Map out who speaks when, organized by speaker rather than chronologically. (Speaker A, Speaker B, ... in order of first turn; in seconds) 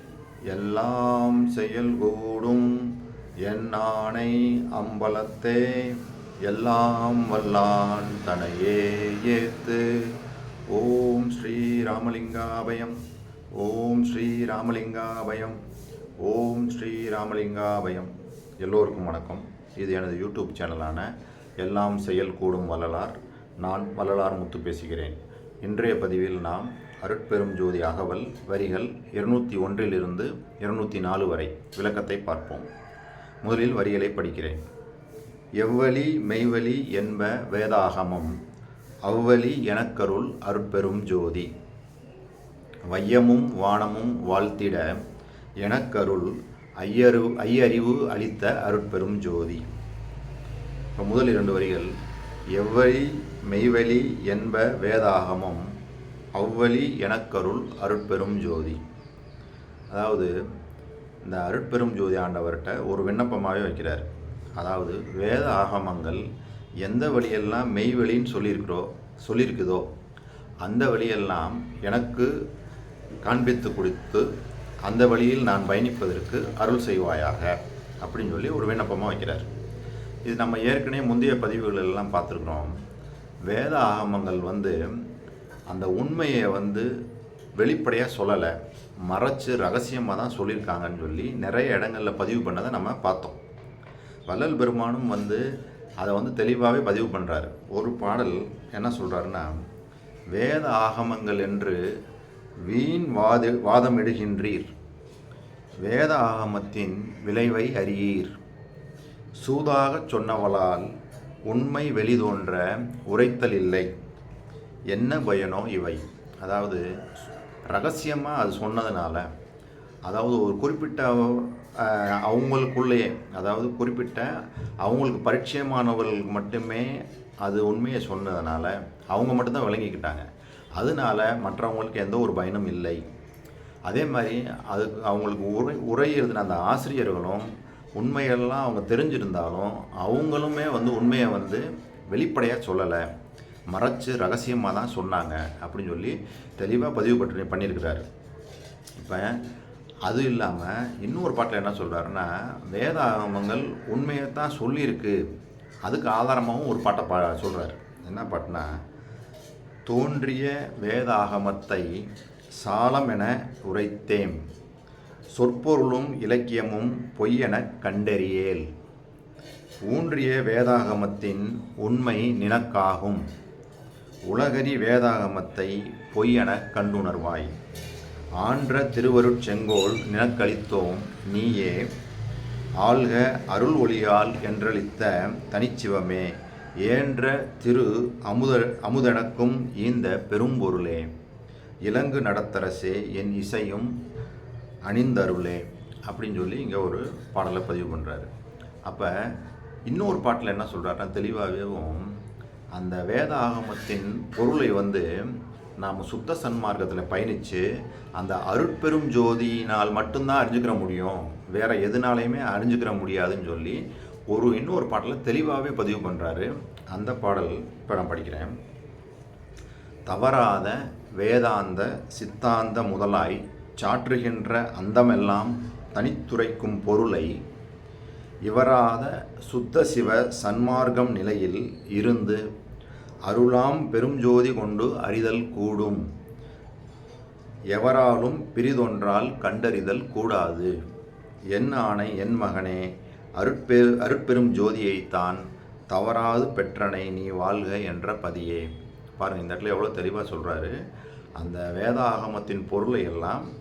Speaker A: 0.5-10.2, 10.7-13.0, 13.5-15.6, 16.2-32.7, 33.4-34.6, 35.6-38.3, 39.0-41.5, 42.9-45.0, 45.6-49.6, 51.0-51.9, 52.5-55.7, 56.4-58.8, 59.9-60.3, 61.2-64.1, 64.6-66.2, 66.8-69.8, 70.6-72.3, 73.2-74.3, 74.8-79.5, 80.2-82.7, 83.5-84.8, 85.7-86.9, 87.5-88.5, 89.1-93.4, 94.3-95.4, 96.0-99.5, 100.3-101.8, 102.6-104.7, 105.8-108.3, 109.4-110.9, 111.5-113.9, 114.9-116.8, 117.6-119.3, 120.0-130.2, 130.8-133.0, 133.8-143.1, 143.7-148.0, 149.0-149.4, 150.0-155.2, 155.8-158.7, 159.8-162.0, 162.6-164.4, 165.3-168.7, 169.8-173.2, 174.3-177.5, 178.4-181.9, 182.8-191.1, 191.8-193.9, 194.8-198.3, 198.8-199.3, 199.8-202.1, 202.7-213.8, 214.3-218.5, 220.1-227.3, 228.4-232.4, 233.2-236.0, 237.7-240.7, 241.5-248.7, 249.2-250.7, 251.4-253.4